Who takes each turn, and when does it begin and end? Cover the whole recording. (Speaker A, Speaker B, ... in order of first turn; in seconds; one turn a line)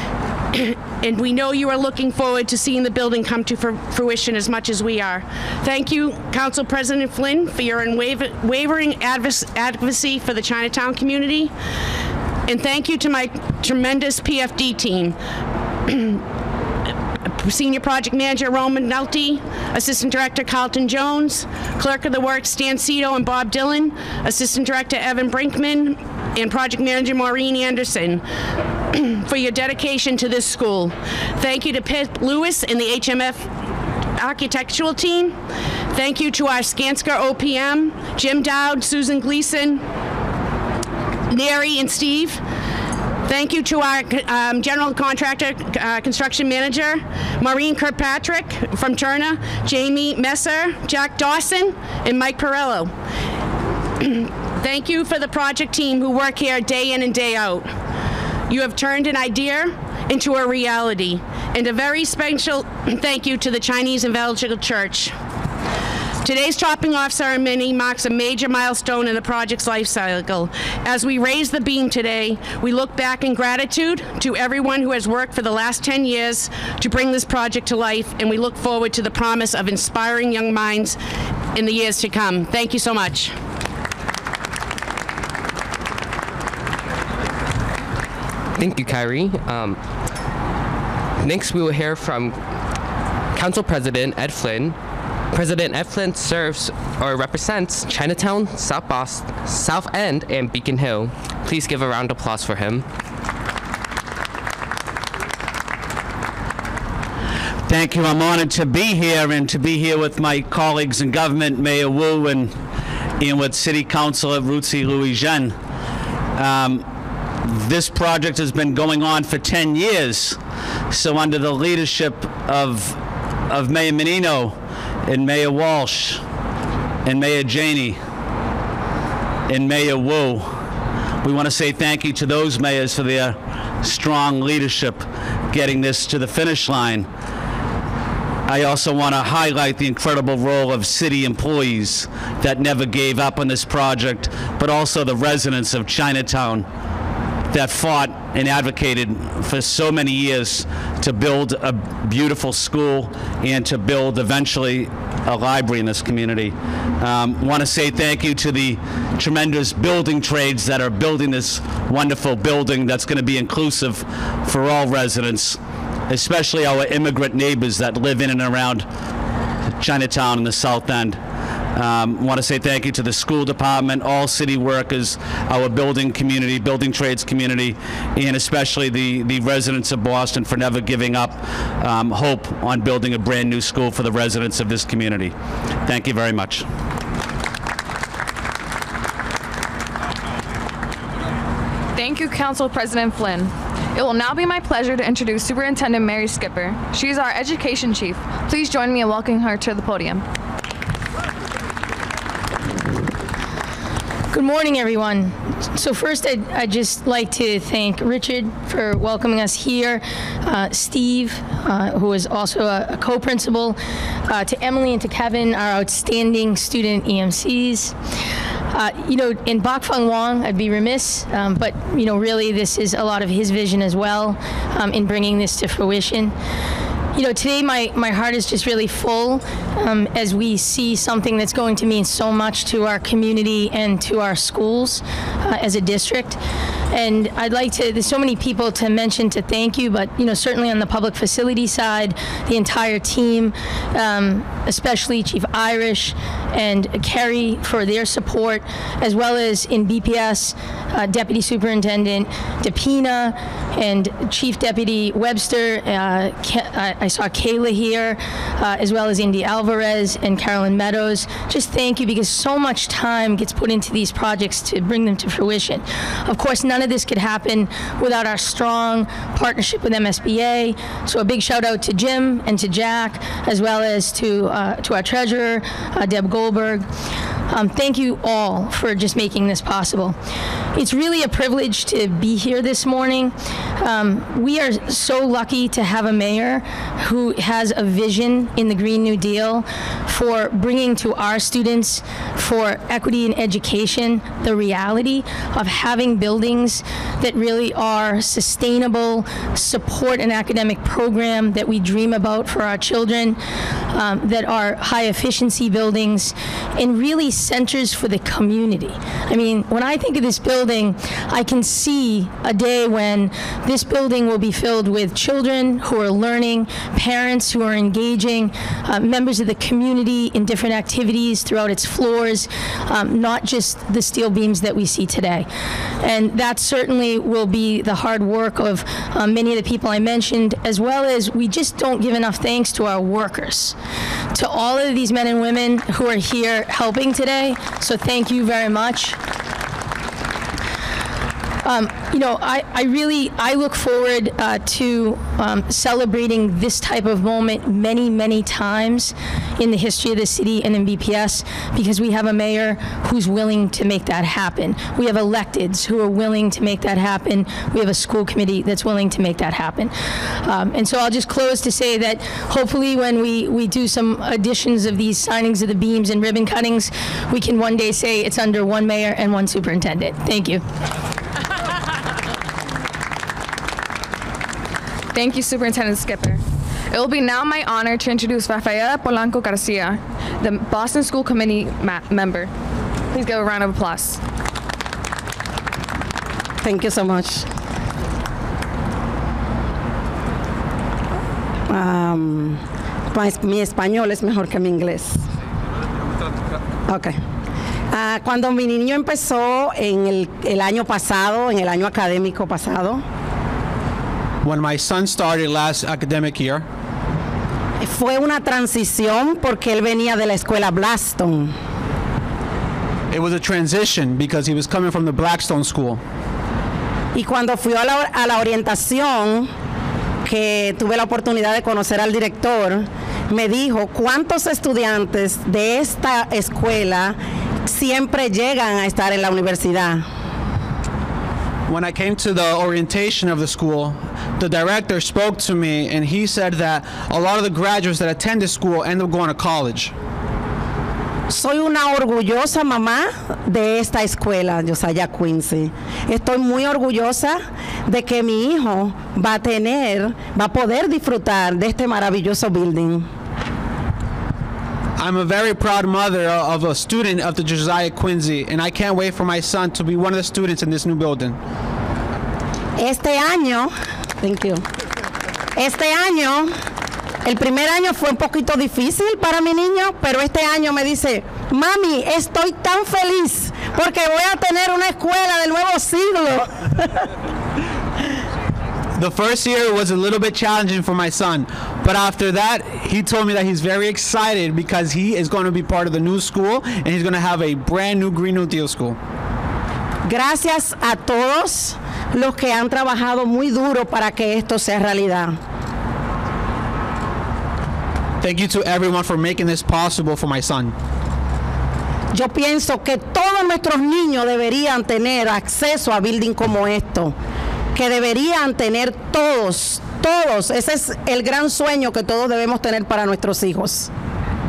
Speaker A: 0.5-11.5
Speaker A: 12.5-15.2
Speaker A: 15.9-16.2
Speaker A: 17.2-28.2
Speaker A: 28.9-33.5
Speaker A: 34.2-35.4
Speaker A: 35.9-39.8
Speaker A: 41.3-42.4
Speaker A: 43.2-52.9
Speaker A: 54.0-57.7
Speaker A: 58.5-65.1
Speaker A: 66.2-81.0
Speaker A: 81.5-83.4
Speaker B: 88.5-89.8
Speaker B: 91.2-92.4
Speaker B: 93.3-94.8
Speaker B: 95.3-102.9
Speaker C: 107.7-112.6
Speaker C: 113.2-115.6
Speaker C: 116.3-116.9
Speaker C: 117.4-120.4
Speaker C: 120.9-126.2
Speaker C: 127.0-128.0
Speaker C: 129.5-130.6
Speaker C: 131.2-137.1
Speaker C: 138.5-146.7
Speaker C: 147.5-168.9
Speaker C: 169.8-171.2
Speaker C: 171.7-186.7
Speaker D: 191.9-200.2
Speaker E: 204.3-217.9
Speaker E: 218.7-226.3
Speaker E: 227.1-236.4
Speaker E: 236.9-276.9
Speaker E: 277.5-280.2
Speaker E: 280.8-303.4
Speaker E: 303.9-325.5
Speaker E: 326.0-333.8
Speaker E: 334.3-339.2
Speaker E: 341.6-370.6
Speaker D: 375.1-382.5
Speaker D: 383.1-384.2
Speaker F: 386.6-387.4
Speaker F: 391.7-395.2
Speaker F: 396.9-397.2
Speaker F: 397.9-403.0
Speaker G: 404.4-406.6
Speaker F: 407.8-411.5
Speaker G: 413.1-416.0
Speaker F: 417.1-419.5
Speaker F: 420.2-430.0
Speaker G: 431.7-439.9
Speaker F: 441.3-453.1
Speaker G: 455.0-461.4
Speaker F: 462.8-464.6
Speaker F: 465.6-466.5
Speaker F: 467.2-476.9
Speaker G: 479.0-489.0
Speaker F: 490.1-495.4
Speaker G: 498.2-500.8
Speaker F: 502.1-507.1
Speaker F: 507.8-513.9